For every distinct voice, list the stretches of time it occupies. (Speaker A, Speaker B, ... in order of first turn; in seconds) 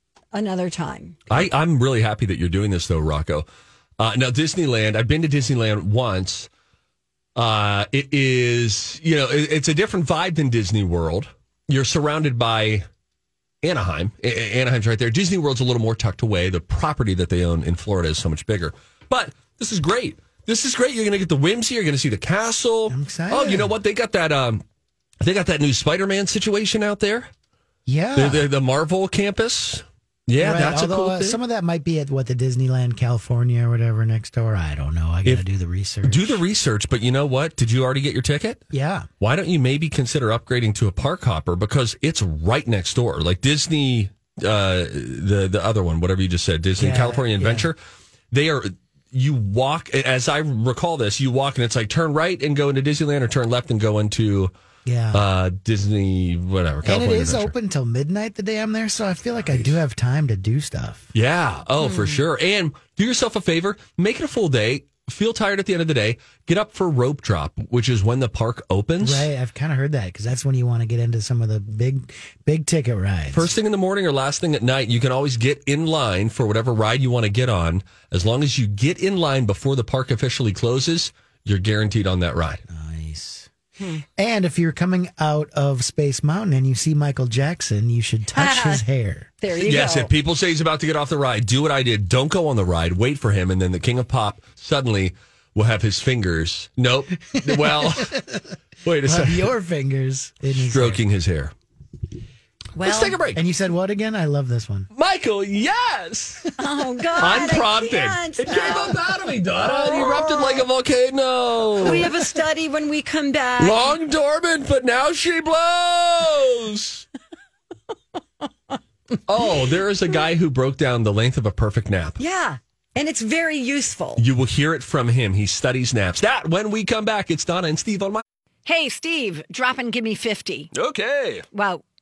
Speaker A: 0.3-1.2, 61.8-62.2, 88.3-88.8, 89.4-90.1, 102.8-103.2, 106.6-109.0, 109.6-110.6, 111.8-114.0, 122.2-124.2, 128.7-130.7, 131.5-131.8
Speaker B: 1.3-3.4, 4.0-6.5, 7.3-12.8, 13.6-24.6, 25.2-27.3, 28.1-31.4, 36.0-38.6, 39.2-47.8, 48.3-54.5, 55.1-57.5, 59.4-59.7, 61.1-69.3, 73.3-82.6, 89.6-98.2, 98.8-99.5, 100.5-101.5, 102.8-103.4, 104.9-106.5, 107.2-112.1, 113.6-117.0, 119.3-122.2, 124.2-128.2, 130.7-131.4
Speaker C: 22.9-23.7, 27.9-28.5, 30.4-36.4, 38.7-39.1, 46.8-47.7, 54.9-55.2, 56.8-61.1, 69.0-73.5, 82.7-83.5, 84.2-89.3, 97.4-98.3, 99.0-101.0, 103.3-104.9